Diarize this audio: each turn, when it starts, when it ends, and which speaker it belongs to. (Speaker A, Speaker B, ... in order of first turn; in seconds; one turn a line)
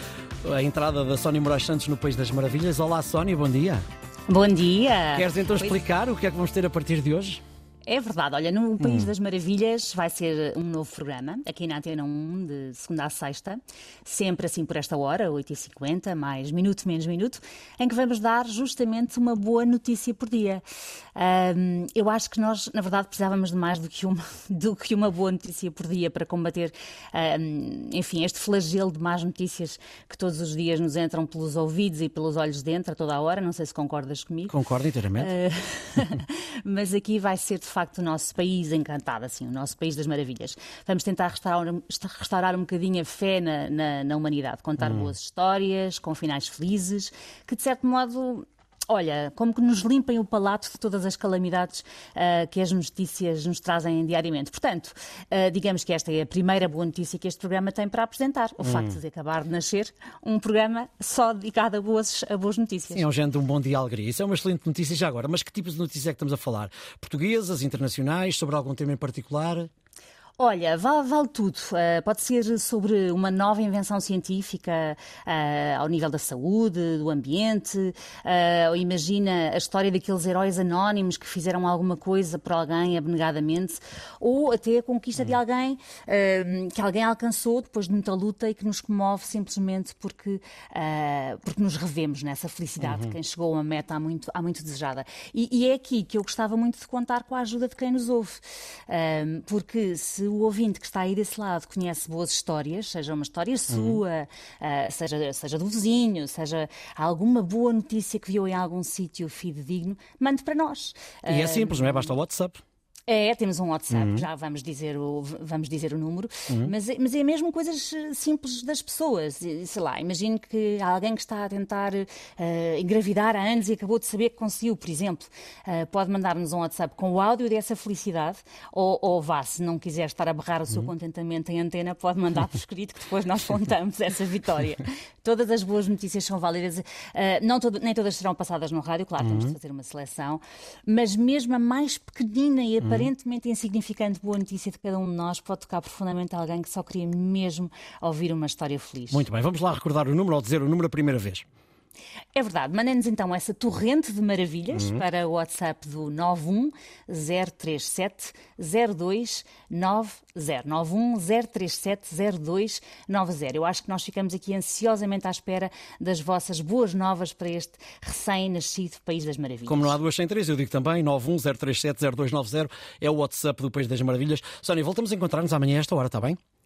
Speaker A: 0.4-3.8
Speaker B: 4.3-5.8
Speaker A: 5.1-7.4
Speaker B: 7.8-20.6
Speaker A: 8.8-9.1
Speaker B: 21.1-34.6
Speaker A: 34.5-35.3
Speaker B: 35.1-63.1
Speaker A: 44.8-45.1
Speaker A: 58.6-59.0
Speaker A: 62.9-69.7
Speaker B: 70.4-112.1
Speaker A: 92.8-93.1
Speaker A: 103.7-104.0
Speaker A: 111.3-112.6
Speaker B: 113.1-149.2
Speaker A: 113.9-114.2
Speaker A: 139.2-139.5
Speaker A: 142.8-143.1
Speaker A: 149.1-151.4
Speaker B: 152.3-170.0
Speaker A: 154.7-155.0
Speaker A: 169.7-176.4